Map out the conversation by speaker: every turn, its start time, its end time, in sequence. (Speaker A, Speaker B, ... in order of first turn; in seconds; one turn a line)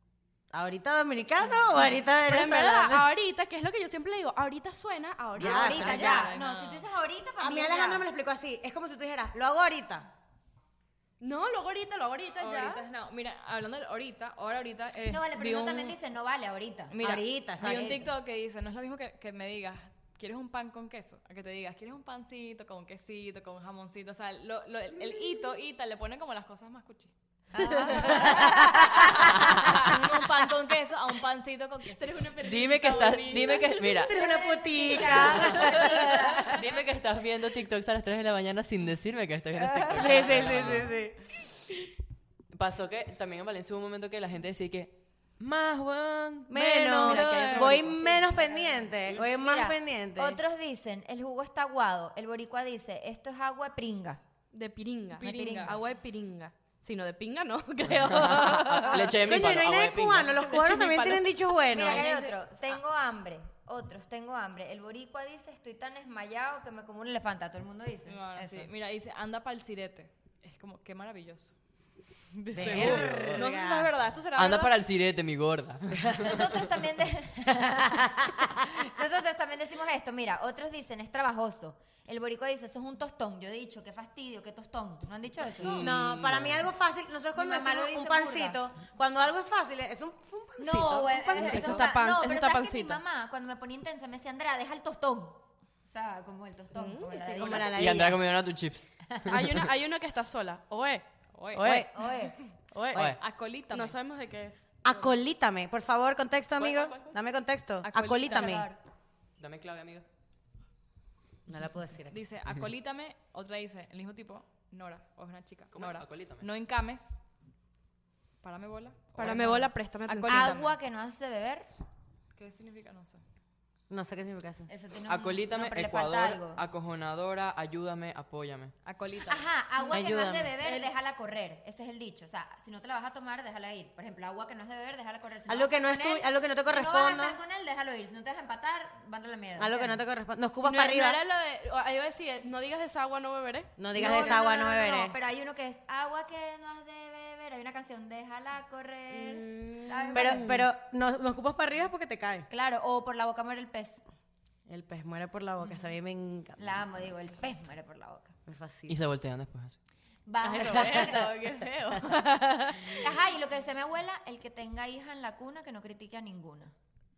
Speaker A: 0.5-3.1
Speaker B: 2.2-6.2
Speaker A: 5.4-6.2
Speaker C: 5.4-8.1
Speaker D: 5.7-6.8
Speaker A: 7.4-10.1
Speaker B: 11.2-12.8
Speaker D: 12.4-16.0
Speaker C: 15.1-17.0
Speaker D: 16.9-27.1
Speaker A: 17.0-18.0
Speaker C: 17.6-18.1
Speaker C: 27.5-29.3
Speaker B: 27.6-28.2
Speaker D: 28.0-28.2
Speaker A: 28.0-29.1
Speaker D: 29.1-32.4
Speaker B: 32.0-33.8
Speaker E: 32.4-34.2
Speaker A: 33.9-36.5
Speaker C: 34.1-36.6
Speaker E: 36.5-41.0
Speaker C: 39.6-40.3
Speaker A: 40.0-41.2
Speaker E: 42.5-47.8
Speaker A: 46.5-50.4
Speaker B: 46.7-48.3
Speaker C: 48.0-54.2
Speaker B: 54.5-59.2
Speaker D: 55.2-55.8
Speaker C: 55.2-55.8
Speaker E: 57.9-60.4
Speaker A: 59.0-62.1
Speaker B: 60.4-61.3
Speaker C: 61.7-68.7
Speaker D: 61.8-62.4
Speaker D: 68.1-71.5
Speaker D: 72.3-74.8
Speaker E: 72.5-73.5
Speaker A: 72.5-73.9
Speaker E: 74.3-76.7
Speaker C: 76.2-85.9
Speaker E: 85.6-86.7
Speaker A: 85.7-91.9
Speaker C: 87.3-88.6
Speaker C: 90.6-98.0
Speaker B: 91.3-93.0
Speaker B: 96.8-97.7
Speaker A: 97.3-98.2
Speaker E: 97.7-99.7
Speaker B: 99.3-101.9
Speaker D: 101.3-101.9
Speaker C: 101.6-102.4
Speaker B: 102.5-103.2
Speaker D: 102.9-104.0
Speaker B: 103.7-104.7
Speaker A: 104.8-108.7
Speaker E: 106.5-107.2
Speaker D: 107.8-108.7
Speaker C: 108.3-108.8
Speaker E: 109.4-110.0
Speaker A: 111.5-112.2
Speaker D: 112.1-117.2
Speaker E: 115.7-116.5
Speaker D: 118.4-120.7
Speaker B: 119.2-120.7
Speaker C: 120.3-121.7
Speaker D: 122.3-123.2
Speaker A: 123.9-124.7
Speaker C: 124.7-126.6
Speaker E: 125.1-128.7
Speaker D: 128.8-129.5
Speaker C: 129.3-140.0
Speaker B: 129.9-130.9
Speaker E: 129.9-130.5
Speaker A: 135.5-137.4
Speaker A: 139.6-141.2
Speaker B: 140.6-144.5
Speaker A: 143.8-145.2
Speaker C: 143.9-150.5
Speaker B: 149.1-150.5
Speaker A: 150.1-152.5
Speaker C: 152.5-154.0
Speaker A: 154.7-156.8
Speaker C: 156.6-158.3
Speaker A: 158.5-159.0
Speaker E: 158.9-159.8
Speaker C: 160.3-161.3
Speaker B: 160.4-162.1
Speaker A: 161.9-163.1
Speaker C: 162.9-166.7